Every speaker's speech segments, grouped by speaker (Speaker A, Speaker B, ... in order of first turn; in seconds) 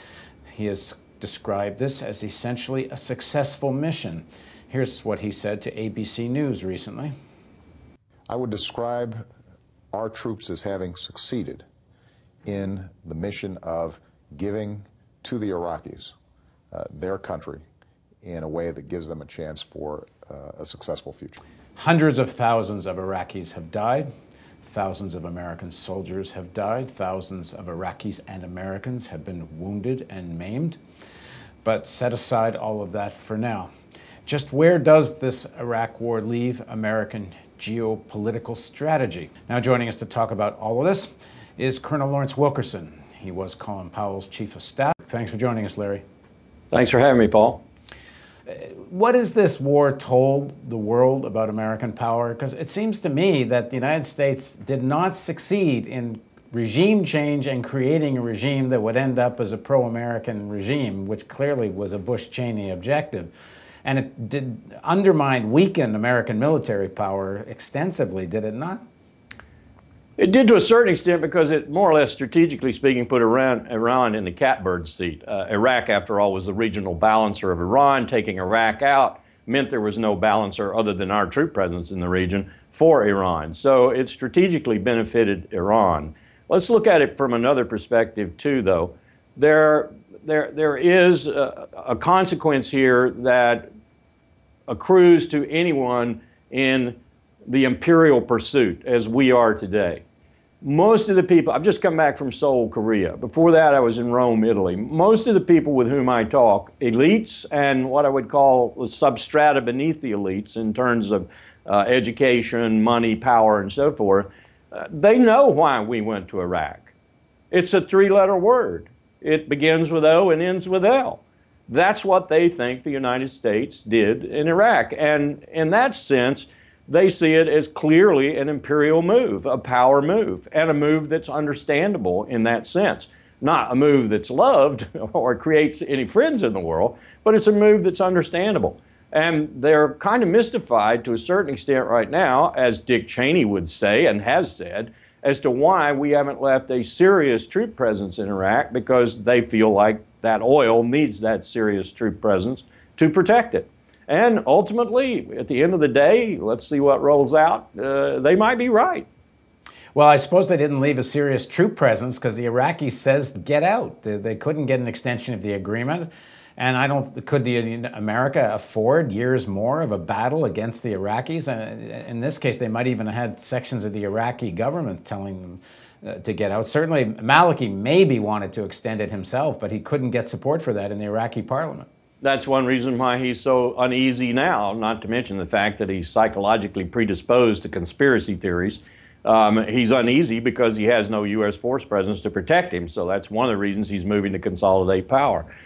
Speaker A: 0.5-7.1, 21.8-24.1, 24.6-30.8, 31.6-33.7, 34.3-46.0, 48.5-63.3, 63.9-68.8, 159.9-181.9
Speaker B: 8.3-9.2, 9.9-11.7, 12.4-16.1, 16.7-17.6, 18.2-21.4
Speaker C: 46.7-47.6, 70.2-93.7, 94.7-100.0, 100.6-116.9, 117.5-159.1, 182.2-195.5